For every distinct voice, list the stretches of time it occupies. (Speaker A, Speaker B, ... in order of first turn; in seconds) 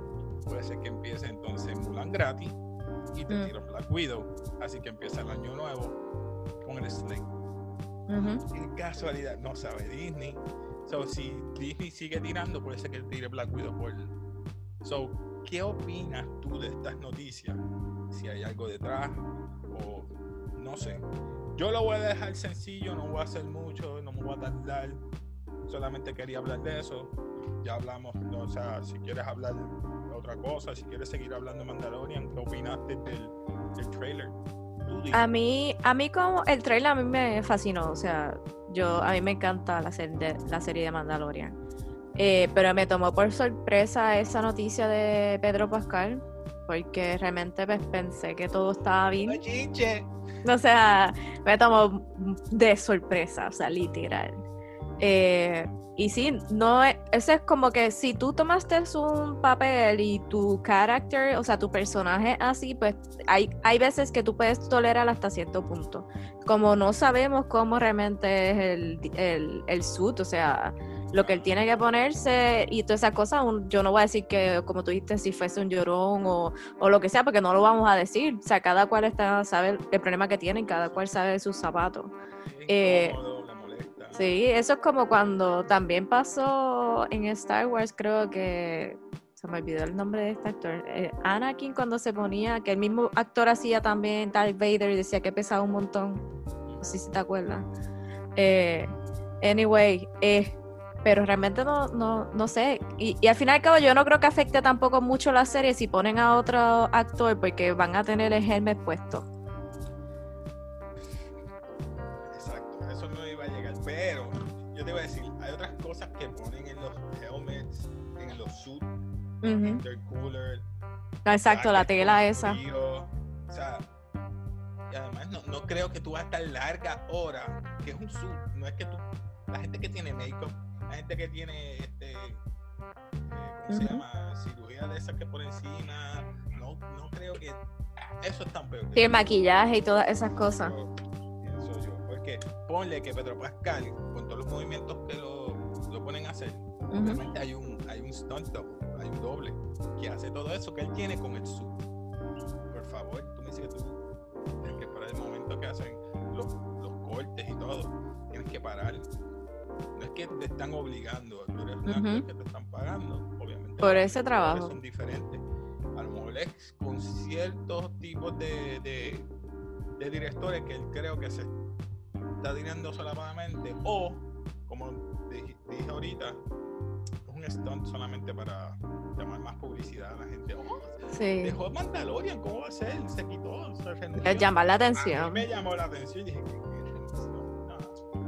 Speaker A: 0.5-2.6, 3.1-6.0, 6.6-7.3, 8.1-14.1, 14.8-21.0, 21.6-25.0, 25.7-35.3, 49.2-50.1, 71.1-71.9, 80.8-81.1, 82.5-84.3, 112.3-118.9, 119.6-120.7, 121.5-123.9, 124.9-132.4, 133.3-137.6, 138.2-139.3, 140.5-151.8, 152.7-154.0, 154.6-159.1, 160.0-165.4, 165.9-169.3, 170.0-171.5, 172.4-176.4, 177.3-188.0
Speaker B: 8.1-8.4, 35.1-41.6, 42.2-49.4, 50.5-54.4, 55.0-82.1, 82.7-83.2, 84.1-96.2, 96.8-97.7, 98.4-109.3, 119.4-119.8, 121.2-122.6, 133.7-134.0, 138.9-140.7, 146.9-147.2, 161.9-162.2, 163.8-164.7, 181.1-181.6, 184.2-185.4